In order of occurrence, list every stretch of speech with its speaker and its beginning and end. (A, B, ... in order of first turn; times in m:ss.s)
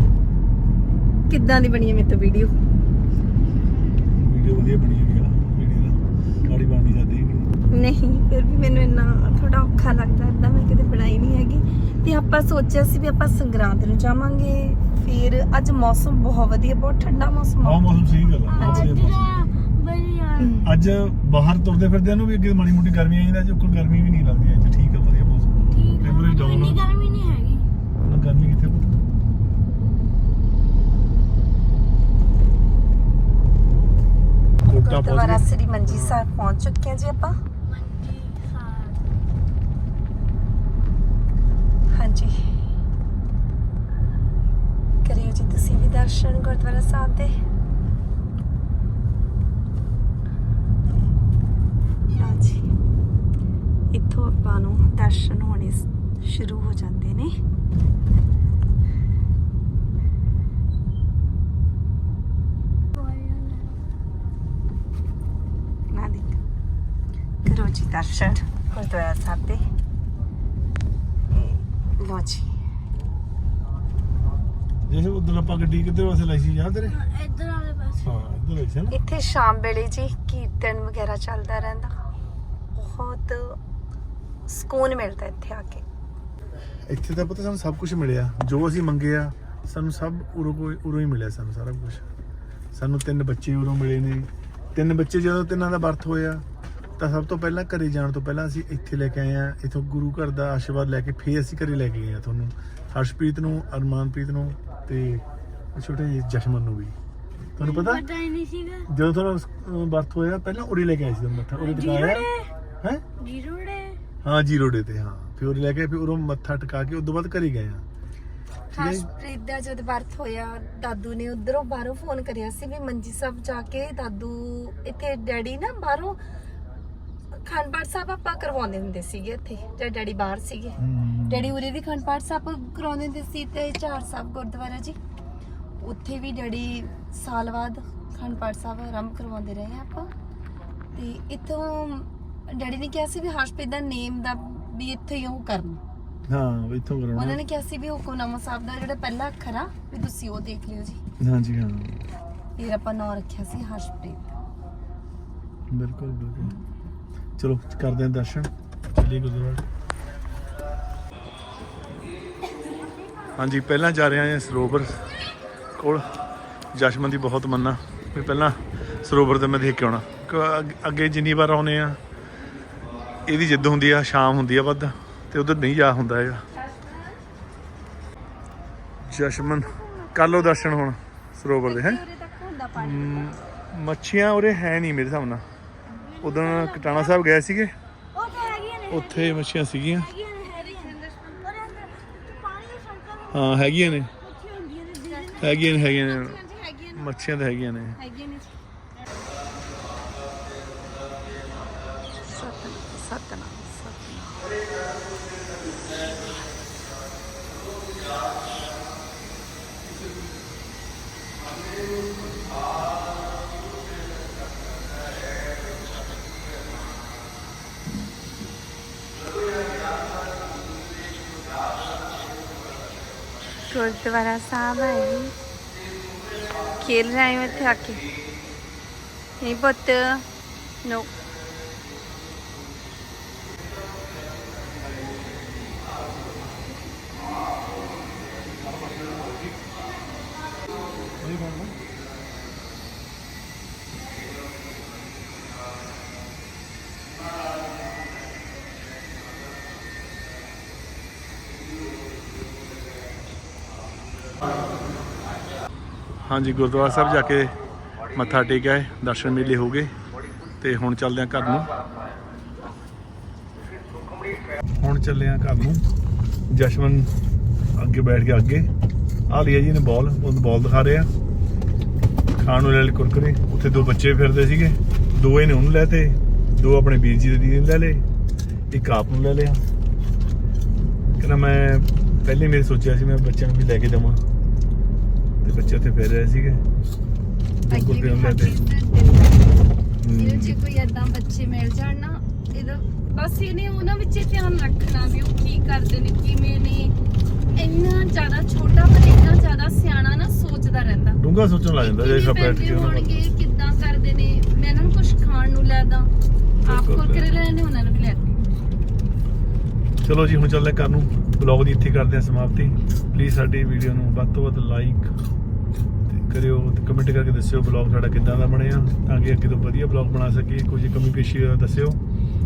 0:01.3-0:02.5 A
0:04.1-0:07.5 B
0:07.7-0:17.9 A
0:17.6-0:19.3 B
0:18.5-0:20.6 C
0:18.6-0:18.9 A
0:20.4-0:20.7 A
0:20.6-0:26.8 B
0:25.7-0:27.7 C
0:28.1-0:29.0 B
0:34.6-0:37.4 A
0:34.7-0:36.2 B
0:37.7-0:39.1 C
0:41.9-0:42.4 A
0:45.0-0:47.3 A
0:52.1-0:52.7 A
0:53.9-0:57.3 A
1:02.9-1:03.8 C
1:05.9-1:06.4 A
1:07.4-1:09.6 A
1:11.3-1:11.6 B
1:12.0-1:12.5 A
1:14.9-1:17.0 B
1:16.9-1:18.2 C
1:18.0-1:19.0 B
1:18.9-1:21.9 A
1:22.8-1:23.6 A
1:24.5-1:25.8 A
1:26.9-1:32.0 B
1:32.7-1:36.4 B
1:37.0-1:45.2 B
1:45.8-1:47.0 B
1:47.6-1:48.0 B
1:47.6-1:48.9 C
1:48.9-1:52.3 B
1:51.6-1:52.5 C
1:53.2-1:54.0 C
1:54.2-1:57.8 B
1:58.7-2:06.2 A
1:58.7-1:59.1 B
2:07.3-2:15.0 A
2:10.8-2:11.6 B
2:15.8-2:20.1 A
2:21.0-2:25.8 A
2:26.3-2:27.4 B
2:27.1-2:31.0 A
2:31.2-2:32.1 B
2:32.6-2:34.3 A
2:35.7-2:36.5 B
2:37.4-2:39.6 B
2:43.4-2:45.0 B
2:45.8-2:46.0 B
2:46.7-2:52.0 B
2:53.3-2:56.4 B
2:56.6-2:57.1 A
2:59.0-3:02.0 B
2:59.8-3:00.1 C
3:01.6-3:03.4 A
3:02.8-3:05.4 B
3:06.0-3:07.2 C
3:06.2-3:07.7 B
3:08.1-3:15.6 C
3:08.9-3:10.1 B
3:10.4-3:11.4 A
3:13.3-3:14.1 B
3:15.1-3:17.1 A
3:15.4-3:16.4 B
3:17.0-3:18.0 B
3:18.0-3:18.5 A
3:22.1-3:24.5 A
3:43.7-3:45.3 A
3:46.8-3:48.1 A
3:49.4-3:50.3 A
3:50.8-3:51.1 A
4:00.4-4:00.7 C
4:01.2-4:01.8 B
4:16.2-4:17.5 B
4:18.1-4:19.9 B
4:20.6-4:21.7 B
4:24.8-4:25.8 B
4:26.5-4:27.1 B
4:27.8-4:28.7 B
4:29.3-4:31.1 B
4:32.4-4:38.0 B
4:38.7-4:39.6 B
4:41.2-4:44.2 B
4:45.4-4:46.6 B
4:47.7-4:49.6 A
4:47.7-4:48.6 B
4:50.0-4:50.6 B
4:50.1-4:57.0 A
4:57.6-5:01.2 A
5:01.1-5:03.1 B
5:01.8-5:06.1 A
5:06.6-5:07.4 B
5:06.6-5:08.4 A
5:10.0-5:15.1 B
5:16.1-5:22.0 B